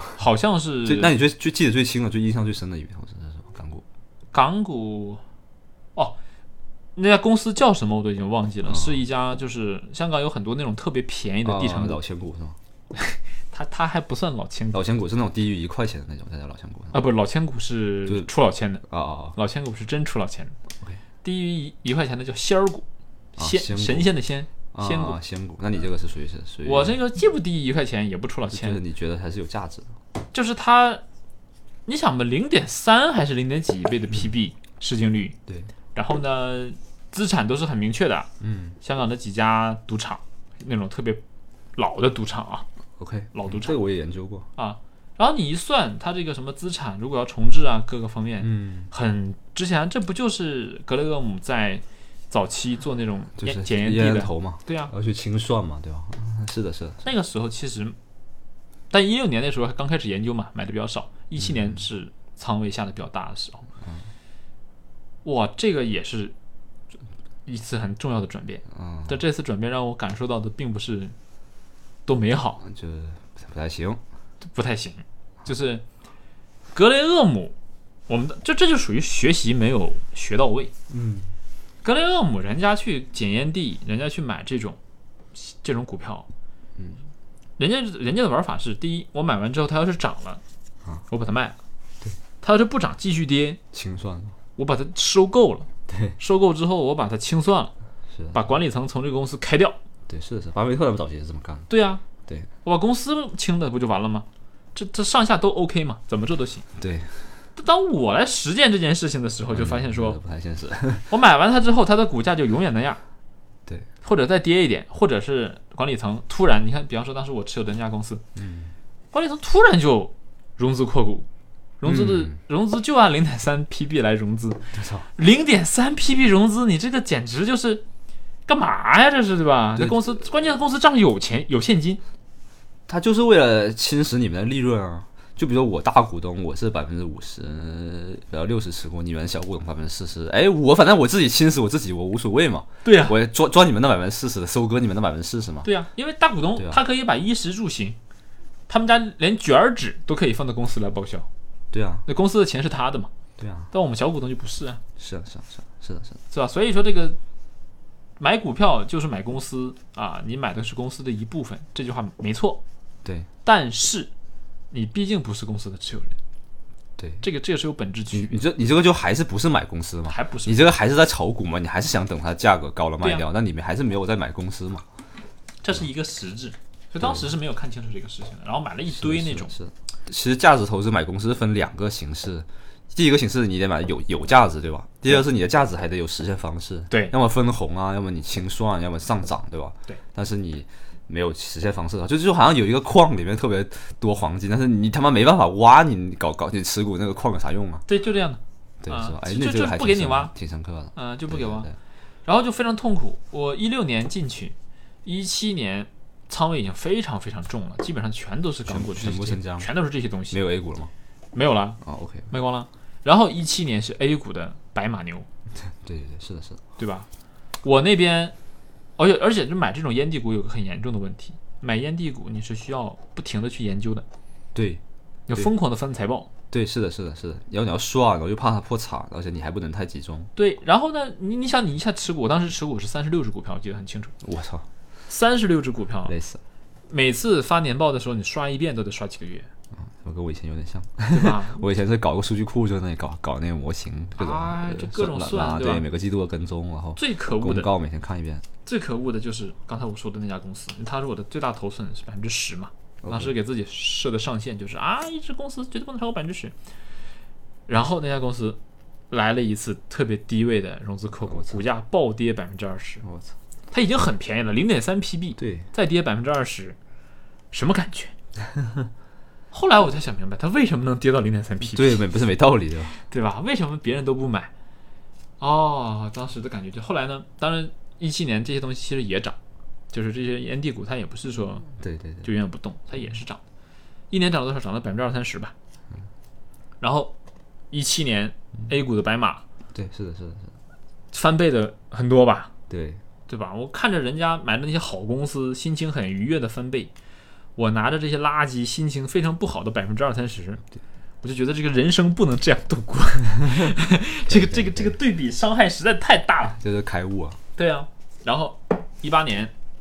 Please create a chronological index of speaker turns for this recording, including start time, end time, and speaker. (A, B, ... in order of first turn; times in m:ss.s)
0:00.2-0:01.1 A
0:00.8-0:03.8 B
0:04.3-0:05.2 A
0:07.0-0:12.0 A
0:08.7-0:09.0 B
0:11.4-0:12.6 B
0:12.9-0:14.8 A
0:14.7-0:17.0 B
0:16.9-0:18.8 A
0:18.8-0:19.4 B
0:19.4-0:20.6 A
0:21.2-0:22.9 A
0:23.4-0:24.1 B
0:23.4-0:25.2 A
0:24.7-0:27.0 B
0:26.6-0:28.8 A
0:28.5-0:29.9 B
0:30.3-0:31.0 A
0:31.9-0:35.4 A
0:36.0-0:38.3 A
0:38.4-0:38.8 B
0:38.8-0:41.2 A
0:41.8-0:42.7 A
0:43.0-0:44.5 B
0:43.3-0:43.8 A
0:44.6-0:54.9 A
0:48.4-0:48.9 B
0:53.4-0:57.0 B
0:57.0-0:58.0 A
0:58.9-1:03.6 A
1:05.2-1:06.4 A
1:07.5-1:11.2 A
1:08.7-1:09.2 B
1:12.1-1:12.6 A
1:12.6-1:14.0 B
1:14.4-1:15.8 A
1:16.7-1:17.6 A
1:18.1-1:20.7 A
1:20.9-1:21.3 B
1:21.8-1:24.8 A
1:25.3-1:26.3 A
1:26.8-1:27.0 B
1:27.6-1:30.4 A
1:31.1-1:31.6 A
1:32.4-1:33.6 A
1:33.7-1:34.4 B
1:34.6-1:37.7 A
1:35.9-1:36.2 B
1:38.1-1:38.4 B
1:38.3-1:39.8 A
1:40.1-1:41.7 B
1:41.7-1:42.0 A
1:42.6-1:46.6 A
1:46.8-1:47.3 B
1:47.6-1:50.2 A
1:49.5-1:51.1 B
1:51.1-1:53.0 A
1:54.0-1:58.2 A
1:58.4-1:58.7 B
1:59.1-2:01.3 A
2:01.8-2:07.8 A
2:01.8-2:02.4 B
2:04.7-2:05.1 B
2:08.5-2:12.0 A
2:12.9-2:25.7 B
2:22.8-2:23.2 A
2:25.6-2:28.0 A
2:28.7-2:31.3 A
2:31.7-2:32.0 B
2:32.1-2:33.1 A
2:33.4-2:33.7 B
2:33.7-2:34.8 A
2:35.0-2:36.2 B
2:36.3-2:37.2 A
2:38.2-2:42.6 A
2:43.4-2:44.1 A
2:44.7-2:46.2 A
2:47.0-2:47.2 B
2:47.2-2:48.4 A
2:48.1-2:54.8 B
2:50.1-2:50.7 A
2:55.6-2:59.6 A
2:58.9-3:17.9 B
3:17.9-3:20.3 A
3:18.8-3:21.7 B
3:21.0-3:21.7 A
3:22.3-3:30.4 A
3:28.6-3:29.7 B
3:30.3-3:30.9 B
3:31.3-3:31.8 A
3:31.8-3:32.3 B
3:32.3-3:35.3 A
3:35.6-3:36.6 B
3:36.8-3:37.1 A
3:37.6-3:38.4 A
3:39.0-3:44.0 A
3:44.6-3:44.8 B
3:45.3-3:46.3 A
3:46.5-3:50.3 B
3:50.4-3:54.2 A
3:54.2-3:54.7 B
3:55.1-3:56.1 A
3:56.1-3:56.4 B
3:56.9-3:59.5 A
3:59.8-4:08.4 B
4:01.1-4:01.6 A
4:04.2-4:05.9 A
4:07.0-4:07.7 A
4:08.6-4:16.6 A
4:13.0-4:13.3 B
4:17.7-4:18.6 A
4:19.1-4:23.0 A
4:21.3-4:21.6 B
4:23.0-4:23.3 B
4:23.7-4:26.8 A
4:25.4-4:25.7 B
4:27.5-4:28.1 A
4:29.5-4:32.0 A
4:31.6-4:33.0 B
4:33.0-4:34.5 A
4:35.4-4:39.4 A
4:39.9-4:41.7 A
4:41.8-4:42.3 B
4:42.2-4:43.4 A
4:44.1-4:45.5 A
4:46.8-4:47.1 A
4:47.7-4:49.4 A
4:49.7-4:50.5 B
4:51.1-4:52.5 A
4:52.7-4:53.0 B
4:53.3-4:56.9 A
4:57.6-5:00.6 A
5:01.2-5:06.6 A
5:04.3-5:04.9 B
5:06.6-5:07.4 B
5:07.6-5:09.5 A